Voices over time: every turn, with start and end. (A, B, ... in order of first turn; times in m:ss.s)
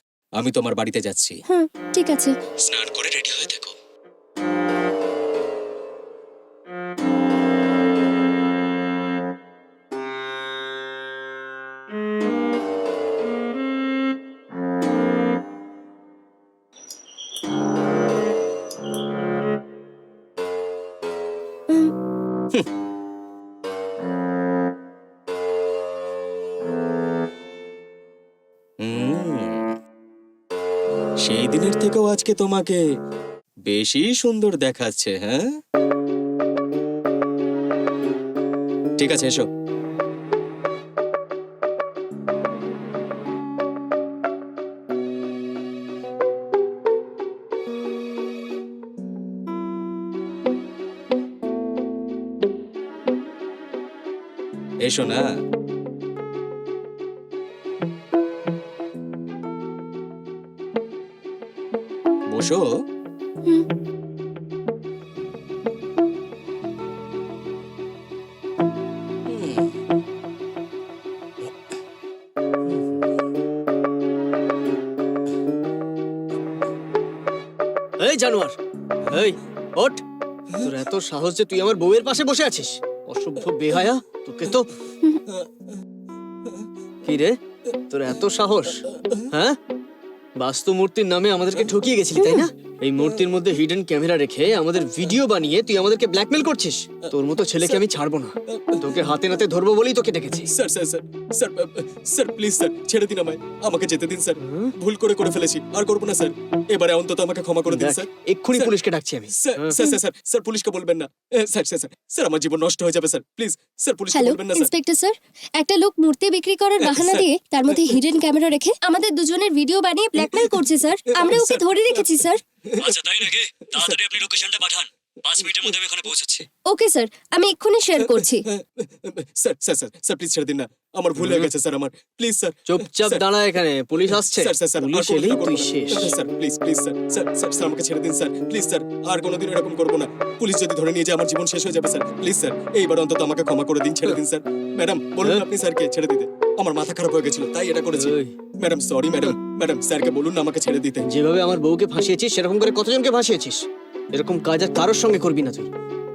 0:00.4-0:01.4 A
0:01.5-0:02.3 B
0:02.6-0:03.7 A
0:28.8-0:29.6 A
0:31.2-0:32.8 A
0:33.7-0:35.4 A
0:39.0-0:39.5 A
0:54.8-0:55.3 A
1:02.3-1:02.7 A
1:18.0-1:18.6 C
1:19.1-1:20.0 C
1:20.6-1:24.7 C
1:27.0-1:27.4 C
1:27.9-1:28.8 C
1:30.4-1:40.5 C
1:32.2-1:32.5 B
1:33.0-1:33.3 A
1:37.6-1:37.9 A
1:38.5-1:39.0 A
1:40.5-1:48.8 A
1:44.5-1:44.7 C
1:47.7-1:49.7 C
1:49.4-1:54.7 A
1:54.1-2:02.4 B
1:56.8-1:58.0 A
2:01.2-2:03.0 A
2:02.8-2:06.4 D
2:06.7-2:08.4 B
2:08.0-2:13.3 A
2:11.2-2:11.5 C
2:12.7-2:16.1 C
2:14.0-2:31.1 A
2:27.9-2:28.3 C
2:31.1-2:33.6 C
2:34.2-2:35.7 C